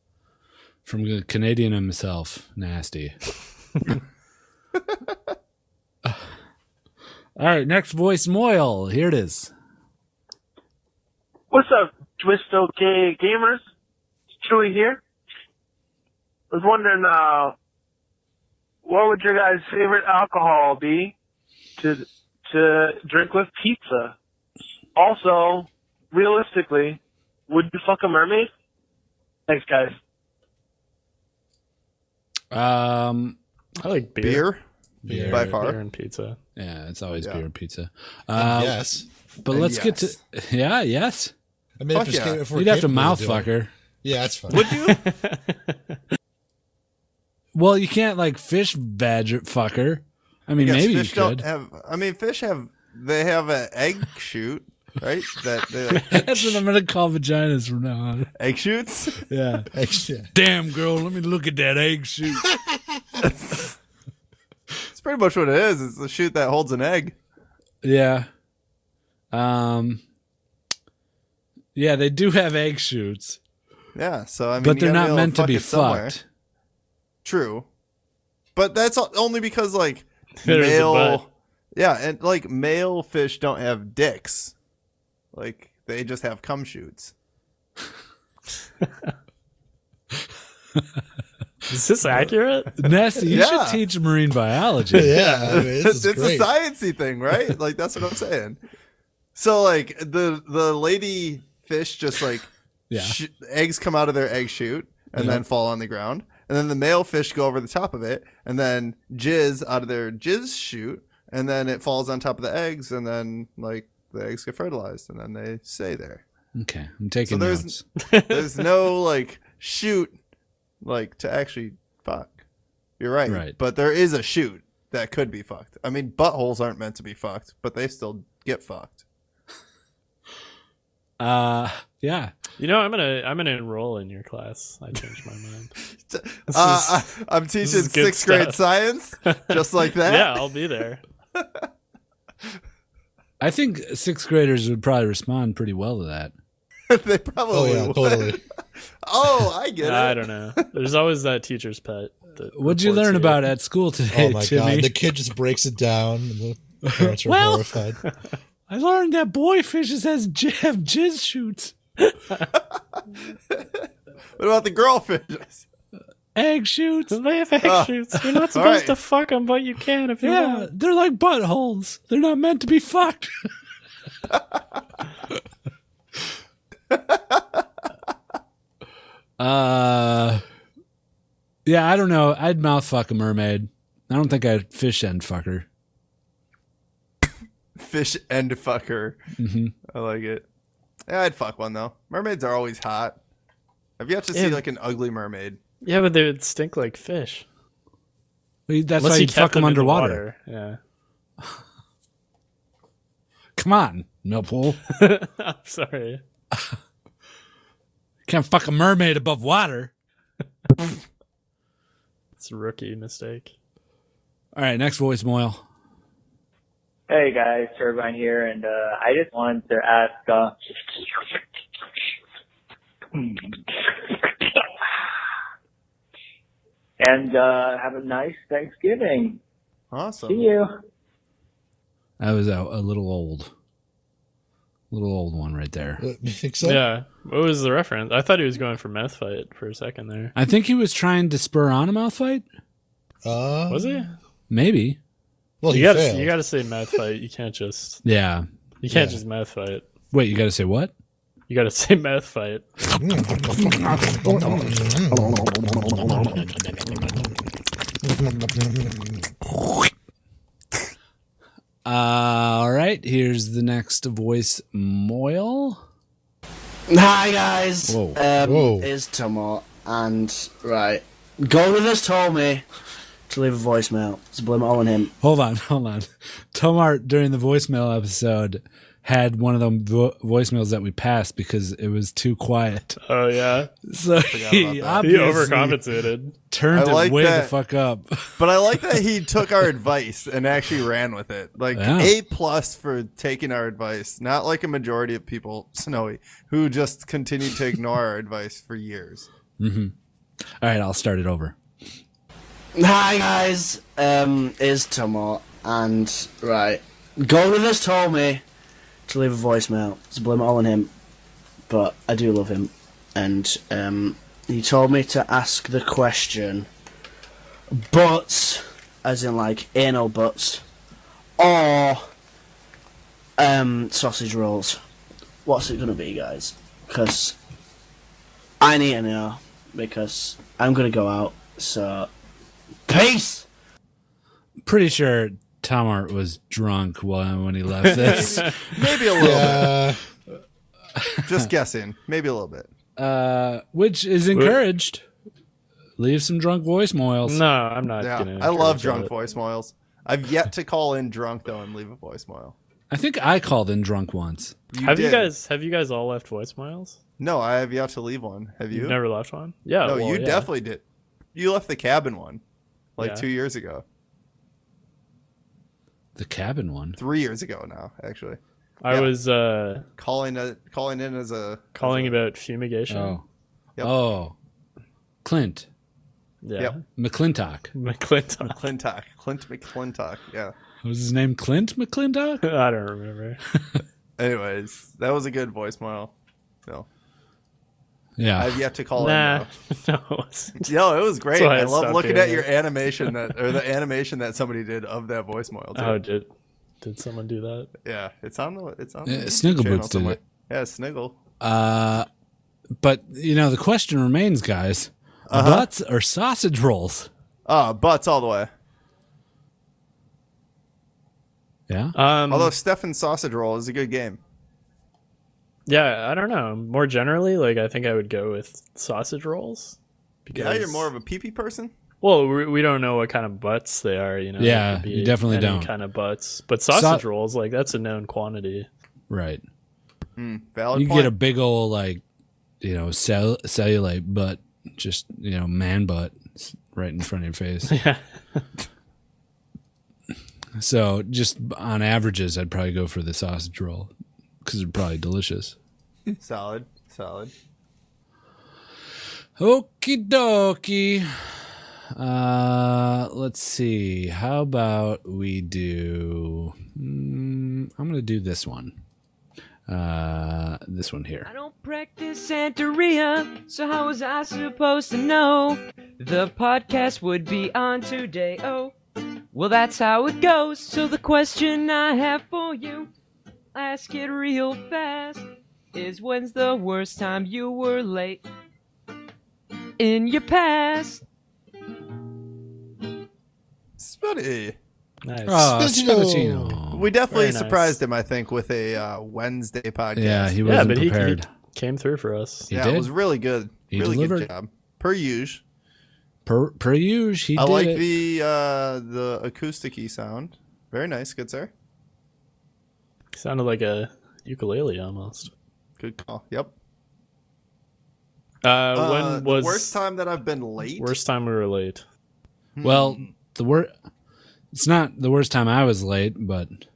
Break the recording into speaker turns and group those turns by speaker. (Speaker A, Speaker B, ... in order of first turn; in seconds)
Speaker A: 0.8-3.1, 7.4-9.5, 32.5-33.4, 35.0-35.5, 36.5-38.8, 39.4-41.3, 42.5-43.7, 47.5-51.4, 55.9-58.3, 59.3-59.7, 60.3-62.5, 67.8-68.3, 69.3-70.0, 71.7-73.4, 74.6-76.2, 92.8-95.2, 102.9-103.1, 105.2-105.4, 116.5-117.8, 123.3-123.5, 131.2-132.3, 143.4-146.3, 152.6-154.9, 156.8-157.7, 158.7-161.7, 166.3-167.2, 170.2-173.3, 179.4-180.4, 181.7-185.7, 189.4-189.7, 198.7-200.2, 203.6-204.8, 208.3-209.9, 214.5-215.6, 232.2-233.5, 234.9-236.0, 240.3-242.4, 244.5-245.0, 248.0-248.4, 250.1-250.9, 261.8-265.8, 267.9-268.2, 275.2-283.0, 283.9-285.8, 286.5-288.4, 291.7-292.1, 299.6-299.9, 300.6-301.5, 334.6-338.6, 343.0-345.0, 346.0-347.4, 352.9-354.5, 366.1-367.0, 372.9-373.2, 373.8-374.3, 375.2-375.6, 376.9-377.7, 380.8-382.4, 388.2-388.5, 399.1-400.2, 401.4-402.1, 402.8-407.1, 411.7-411.9, 424.4-425.7, 426.7-427.0, 429.1-429.4, 430.7-432.0, 432.6-437.7, 440.6-443.9, 444.4-445.5, 449.4-451.1, 451.9-458.8, 459.7-461.3, 485.2-486.9, 489.9-491.3, 492.5-492.9, 493.7-494.3, 496.2-497.8, 512.6-513.7, 514.5-516.6
Speaker B: 11.5-13.6, 14.4-15.0, 16.5-17.5, 18.9-21.1, 21.8-24.1, 25.0-26.9, 27.5-28.4, 29.5-29.9
Speaker C: 33.8-34.5, 35.4-36.4, 44.6-46.0, 80.4-81.2, 91.7-92.9, 118.1-118.6, 132.6-135.7, 136.5-137.0, 137.6-138.6, 139.3-141.0, 149.8-153.4, 162.1-162.4, 167.1-170.7, 194.3-194.6, 195.8-197.4, 199.0-200.8, 204.9-206.2, 212.4-213.5, 236.6-240.3, 243.7-244.1, 245.7-248.0, 248.8-249.8, 251.5-252.7, 283.0-283.7, 285.0-286.3, 337.9-338.6, 344.3-344.6, 347.2-349.1, 354.8-357.0, 358.7-360.5, 363.0-363.2, 368.8-369.8, 371.8-373.2, 376.4-376.8, 377.7-378.6, 382.4-383.4, 389.0-390.7, 391.3-392.5, 395.7-396.3, 396.8-397.7, 411.9-412.5, 415.7-420.9, 422.0-428.7, 437.7-438.4, 485.0-485.6, 487.1-487.8, 490.4-492.5, 503.1-505.3, 508.4-509.8, 510.8-511.8
Speaker D: 34.2-34.6, 35.3-35.8, 39.5-40.1, 41.9-42.4, 44.5-45.0, 50.6-56.6, 58.4-59.2, 63.2-63.7, 64.9-67.1, 73.9-76.2, 77.2-77.7, 78.5-84.5, 85.3-87.1, 93.3-93.8, 95.2-98.6, 99.3-116.2, 117.2-117.8, 118.3-120.2, 120.8-122.4, 123.0-129.0, 136.1-140.4, 141.4-141.7, 146.9-148.4, 149.0-150.6, 163.5-163.8, 164.4-165.6, 167.6-167.9, 168.5-168.9, 176.9-177.4, 187.8-189.2, 189.9-190.4, 191.1-193.2, 194.0-195.6, 229.9-230.5, 284.2-285.3, 286.7-287.5, 288.4-299.3, 337.9-339.9, 341.2-342.7, 348.0-352.5, 354.7-355.3, 357.2-359.0, 359.8-360.8, 361.3-362.4, 363.0-363.8, 367.0-368.4, 370.0-372.2, 378.4-380.5, 384.2-386.1, 388.4-389.5, 390.6-396.0, 397.8-401.1, 405.3-405.7, 407.4-408.5, 412.3-414.2, 420.3-421.7, 430.2-431.1, 446.2-447.3, 483.8-484.6, 486.7-490.4, 492.5-495.4, 497.4-501.5, 505.8-506.5, 508.7-510.9, 512.5-513.1
Speaker E: 35.1-35.5, 38.3-39.0, 41.8-43.5, 44.0-44.6, 59.7-60.3, 94.9-96.5, 147.5-148.4, 154.1-158.0, 236.0-236.8, 243.2-244.0, 245.6-246.3, 248.9-249.2, 253.0-256.3, 258.1-259.0, 268.4-268.9, 339.2-340.0, 485.6-486.6
Speaker F: 217.1-220.5, 227.0-229.4, 230.3-230.7
Speaker G: 266.9-272.6, 273.3-275.1, 302.7-308.4, 309.1-310.9, 311.7-316.7, 317.7-320.6, 321.4-322.1, 323.4-324.8, 325.4-327.4, 328.6-332.1, 332.9-333.5
Speaker H: 461.2-468.7, 469.3-472.9, 473.5-478.2, 479.8-481.0